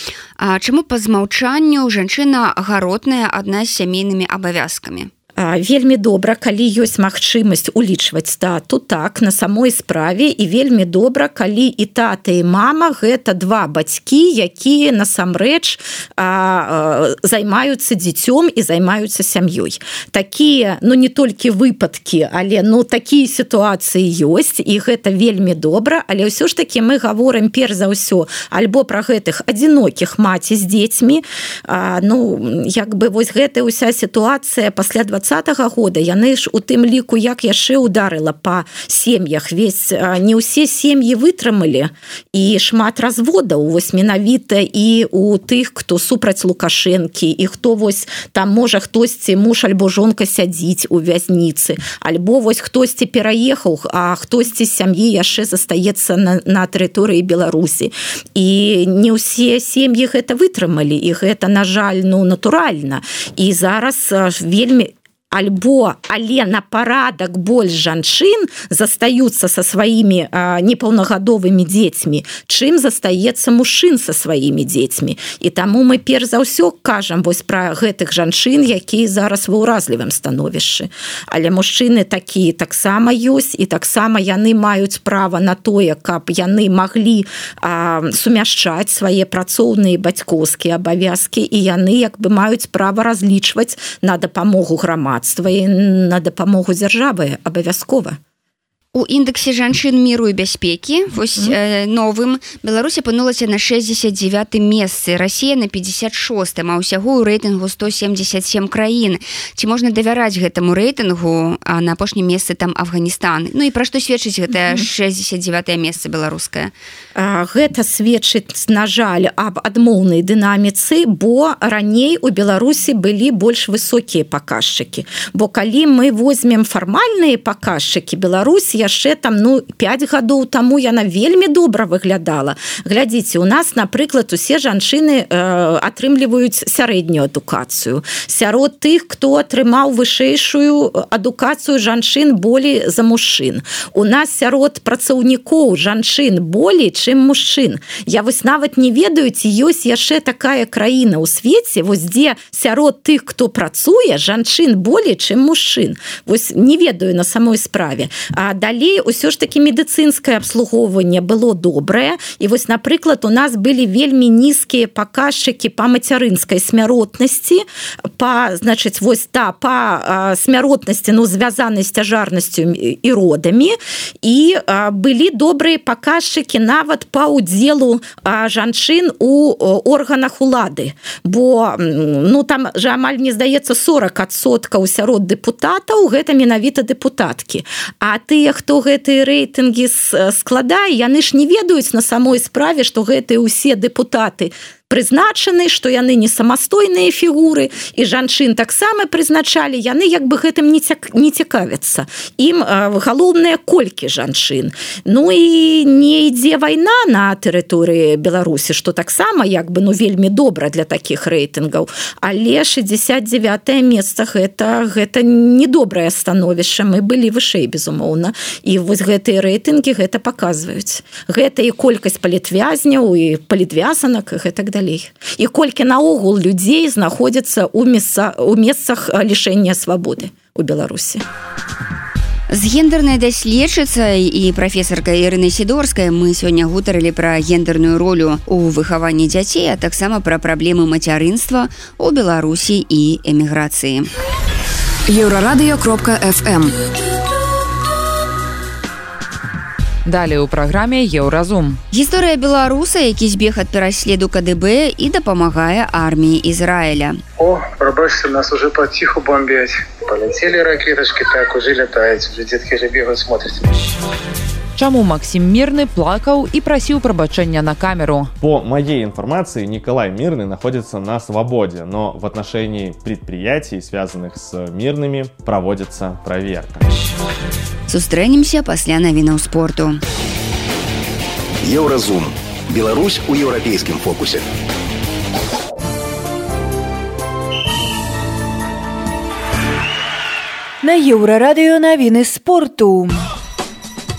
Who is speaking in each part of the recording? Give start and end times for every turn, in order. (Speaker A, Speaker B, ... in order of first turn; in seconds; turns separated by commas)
Speaker A: 0.4-5.1, Speaker B: 5.4-98.2, Speaker A: 98.9-116.7, Speaker B: 114.5-114.9, Speaker B: 117.1-167.6, Speaker B: 168.2-231.2, Speaker A: 232.5-244.1, Speaker C: 250.0-251.8, Speaker A: 251.9-257.2, Speaker D: 257.4-263.9, Speaker C: 264.8-268.3, Speaker E: 268.4-276.9, Speaker A: 277.9-280.0, Speaker F: 281.6-284.4, Speaker G: 290.8-293.2